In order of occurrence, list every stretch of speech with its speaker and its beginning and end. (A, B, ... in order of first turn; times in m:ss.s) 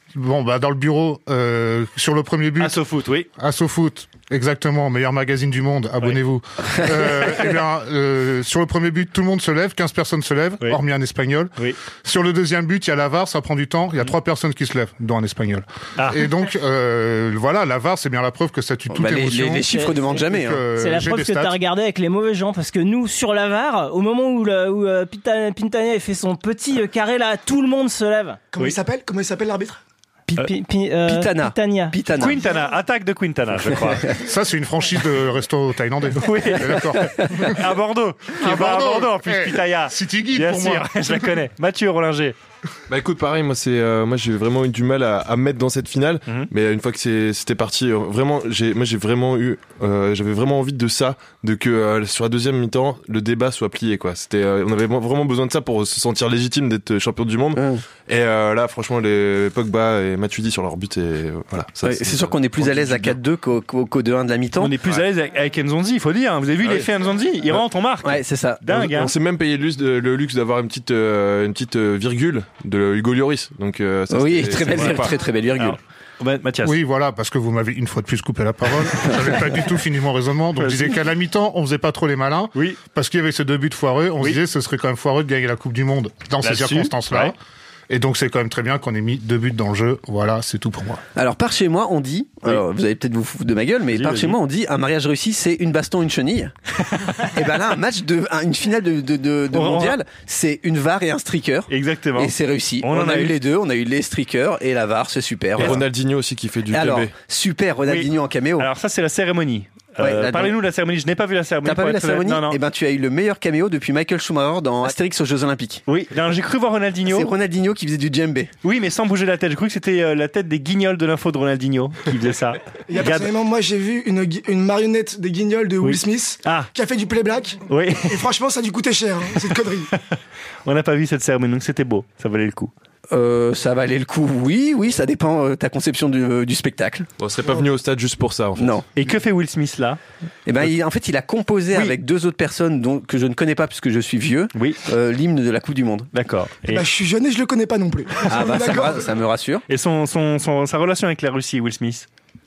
0:00.1-0:02.8 A
0:02.6-0:03.3 B
0:03.4-0:19.7 A
0:16.0-0:16.3 B
0:18.9-0:20.6 C
0:19.7-0:28.4 D
0:20.3-0:21.6 A
0:28.5-0:29.8 E
0:30.4-0:32.0 D
0:31.0-0:32.5 C
0:32.2-0:34.1 B
0:34.1-0:37.6 A
0:36.2-0:42.3 B
0:38.4-0:41.3 A
0:42.9-1:03.2 F
0:57.5-0:57.8 C
1:01.8-1:04.8 C
1:04.6-1:09.1 B
1:08.0-1:09.2 C
1:08.9-1:15.0 F
1:14.1-1:15.8 C
1:14.7-1:16.8 B
1:16.6-1:27.4 A
1:20.6-1:20.9 B
1:26.4-1:27.3 B
1:27.9-1:31.0 A
1:31.1-1:36.5 C
1:33.9-1:34.4 B
1:37.0-1:37.3 B
1:37.2-1:45.8 C
1:39.5-1:40.0 B
1:41.7-1:43.3 B
1:45.6-1:47.1 F
1:46.7-1:48.7 C
1:47.9-1:52.6 B
1:50.0-1:50.5 C
1:51.6-1:55.8 C
1:55.9-1:57.3 B
1:57.0-1:58.5 C
1:58.6-2:03.3 B
2:02.9-2:09.9 E
2:05.8-2:06.7 B
2:07.7-2:08.1 B
2:10.6-2:12.7 B
2:13.1-2:17.1 C
2:17.2-2:18.8 F
2:18.6-2:18.8 C
2:18.9-2:20.0 B
2:20.4-2:26.1 C
2:24.5-2:24.8 B
2:26.1-2:26.8 B
2:26.7-2:29.0 E
2:28.2-2:29.6 C
2:29.7-2:32.1 B